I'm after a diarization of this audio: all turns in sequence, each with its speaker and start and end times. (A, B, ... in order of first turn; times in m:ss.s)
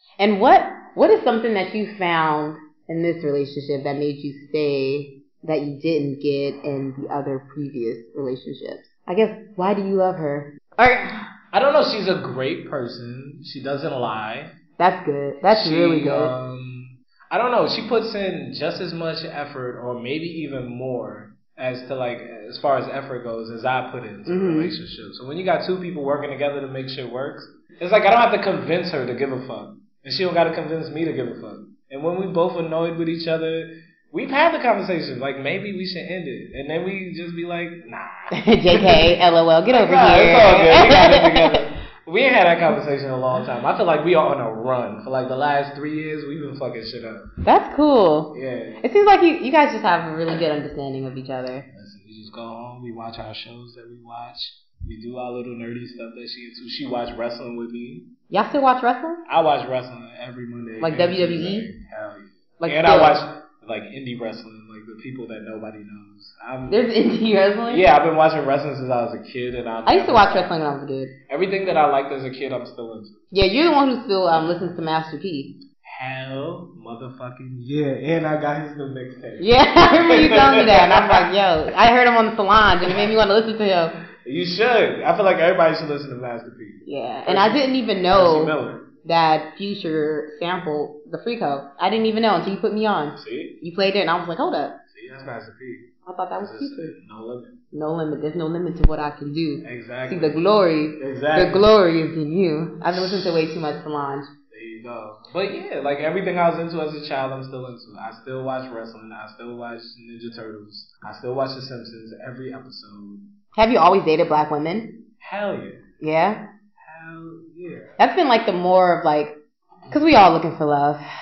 0:00.2-0:11.3 A
0:11.5-0:14.5 B
0:14.8-0:16.3 A
0:15.5-0:39.1 B
0:24.3-0:24.7 A
0:38.3-0:41.6 A
0:39.7-0:47.3 B
0:47.4-0:51.7 A
0:48.3-0:48.9 B
0:51.7-0:58.1 B
0:58.3-0:59.2 A
0:59.3-1:06.8 B
1:00.8-1:01.7 A
1:02.6-1:03.2 A
1:06.7-1:07.8 A
1:07.7-1:10.5 B
1:09.9-1:11.1 A
1:11.3-1:13.1 B
1:13.3-1:15.6 A
1:15.8-1:19.5 B
1:19.4-1:24.0 A
1:20.1-1:21.3 B
1:24.2-1:28.9 B
1:26.9-1:34.8 A
1:33.2-1:33.6 B
1:34.9-1:37.6 B
1:36.0-1:37.0 A
1:37.7-1:44.3 A
1:39.6-1:40.4 B
1:41.0-1:41.7 B
1:42.9-1:43.6 B
1:44.5-1:53.2 B
1:53.6-1:54.9 A
1:55.2-1:55.8 B
1:56.0-1:56.4 A
1:56.8-1:57.9 B
1:58.0-1:59.4 A
1:59.9-2:01.0 A